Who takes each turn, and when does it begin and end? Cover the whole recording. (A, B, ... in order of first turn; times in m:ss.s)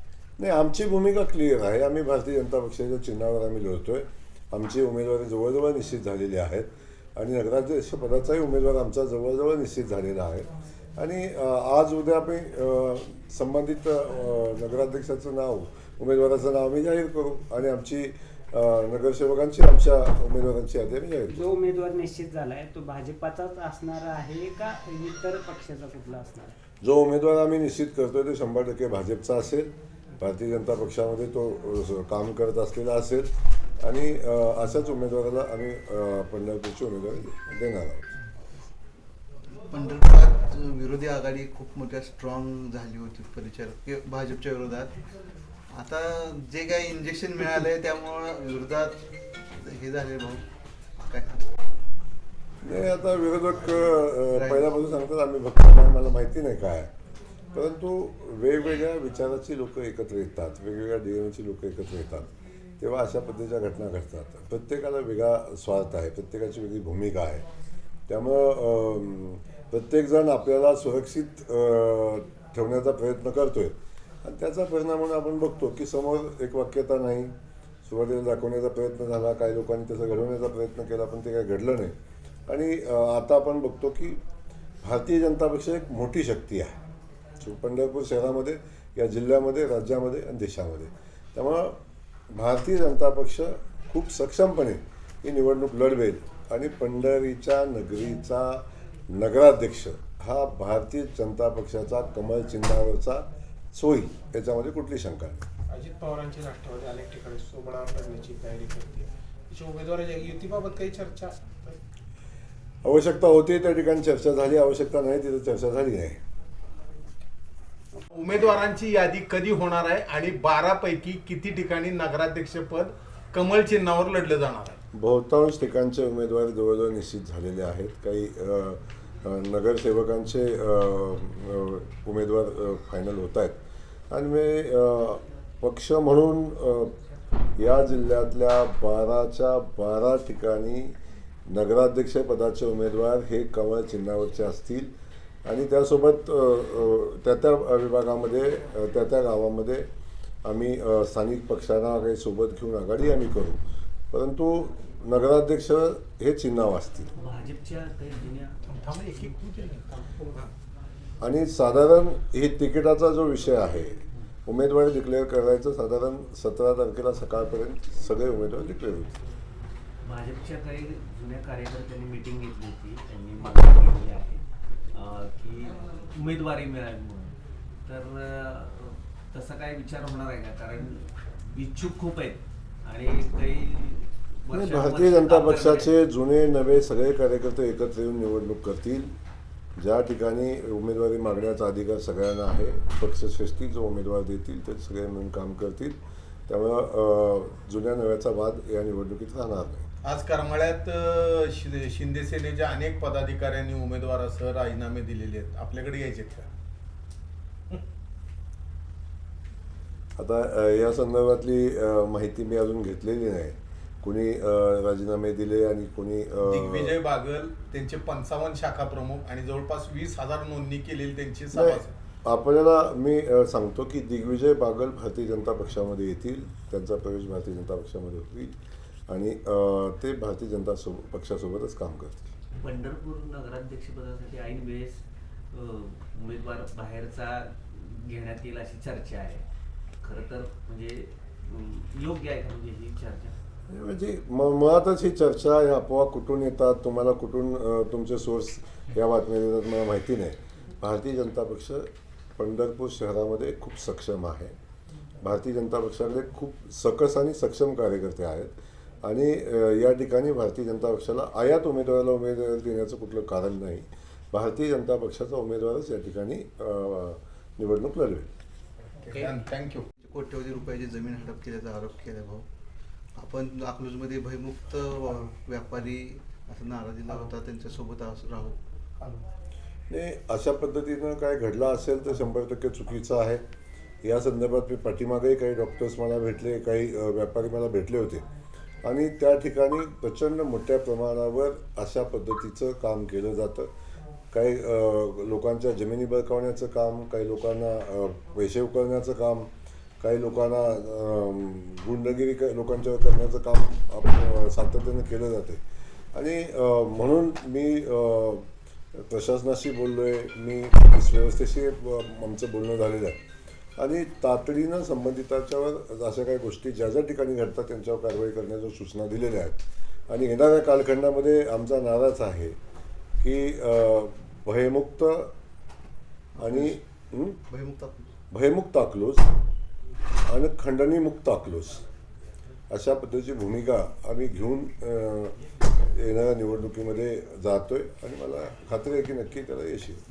0:00.4-0:21.5 A
0:21.3-0:26.6 B
0:26.8-0:38.1 A
0:39.7-0:44.9 C
0:45.7-0:50.5 C
0:51.0-0:51.5 C
0:52.6-0:56.9 A
0:54.3-0:54.7 C
0:57.5-1:07.4 A
1:08.1-1:17.3 A
1:17.8-1:22.0 A
1:22.5-1:24.2 A
1:24.8-1:26.8 A
1:27.4-1:31.8 A
1:32.3-1:45.4 A
1:45.7-1:51.8 D
1:52.8-1:56.2 A
1:58.0-2:04.8 E
2:04.9-2:17.0 A
2:17.6-2:21.0 A
2:21.5-2:24.9 A
2:25.4-2:29.9 A
2:30.4-2:37.1 A
2:37.2-2:38.6 F
2:38.7-2:40.5 D
2:41.2-2:49.2 A
2:50.0-3:05.9 F
3:04.5-3:09.1 A
3:09.8-3:19.9 A
3:20.0-3:26.5 E
3:30.2-3:37.0 A
3:36.5-3:41.9 E
3:41.5-3:48.6 A
3:49.1-3:52.3 A
3:52.6-3:59.4 F
4:00.0-4:03.4 F
4:03.7-4:14.6 A
4:15.2-4:28.3 A
4:29.0-4:29.9 E
4:30.0-4:32.5 C
4:33.2-4:38.6 C
4:39.9-4:43.4 A
4:44.0-4:48.3 A
4:48.8-4:53.7 A
4:54.3-5:05.6 A
5:06.1-5:13.2 A
5:13.8-5:22.6 A
5:23.2-5:25.3 A
5:26.4-5:26.8 C
5:26.4-5:27.4 A
5:27.5-5:28.1 C
5:28.3-5:29.3 A
5:30.3-5:31.8 A
5:32.7-5:40.0 A